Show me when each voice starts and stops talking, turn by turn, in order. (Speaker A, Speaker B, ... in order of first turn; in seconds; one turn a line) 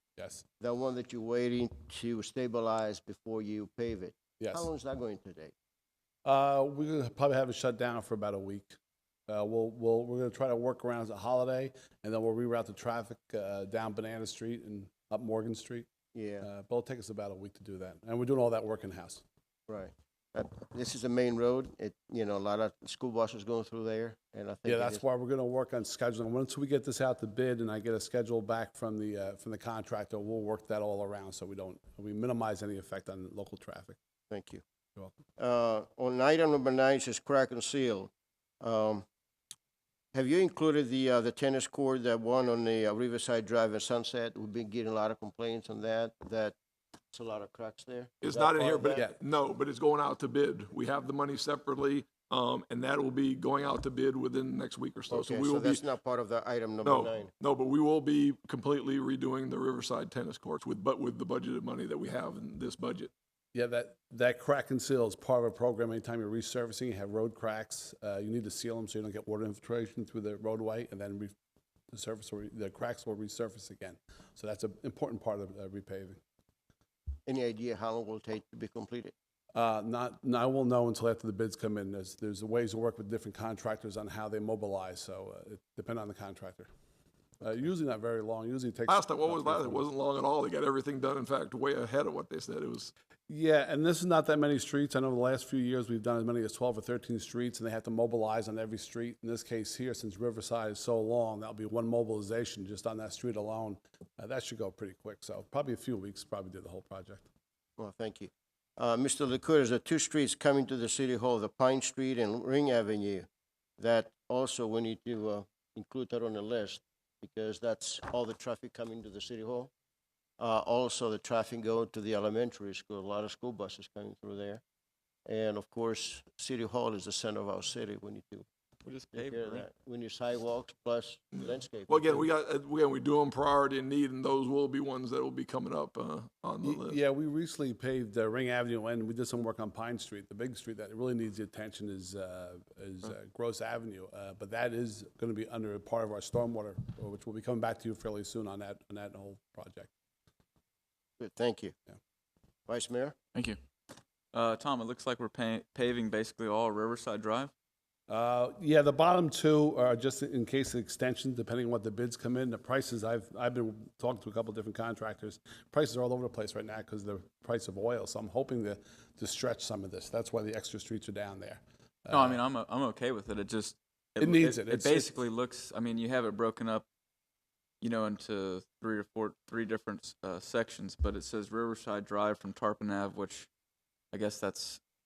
Speaker A: 0.2-0.4
Speaker B: 0.6-5.5
Speaker A: 4.4-4.7
Speaker A: 6.2-8.8
Speaker A: 9.3-15.9
Speaker B: 16.1-16.5
Speaker A: 16.4-19.2
Speaker B: 19.7-25.0
Speaker A: 24.6-34.0
Speaker B: 34.3-34.6
Speaker B: 35.4-39.0
Speaker B: 40.1-46.5
Speaker B: 47.1-49.0
Speaker C: 48.2-55.8
Speaker B: 55.1-57.3
Speaker C: 56.8-63.1
Speaker A: 63.5-71.3
Speaker A: 71.9-76.2
Speaker B: 77.2-79.1
Speaker A: 79.5-86.7
Speaker A: 87.4-89.8
Speaker C: 88.9-92.9
Speaker A: 93.3-107.3
Speaker B: 107.8-119.7
Speaker B: 120.4-124.6
Speaker B: 125.2-128.4
Speaker D: 128.8-129.6
Speaker B: 129.1-132.2
Speaker C: 131.3-137.0
Speaker A: 136.6-149.9
Speaker B: 151.2-151.7
Speaker B: 152.7-153.1
Speaker D: 153.3-153.6
Speaker D: 154.3-157.5
Speaker A: 158.1-172.4
Speaker D: 172.1-176.8
Speaker A: 174.2-175.2
Speaker D: 177.8-183.5
Speaker D: 184.1-184.8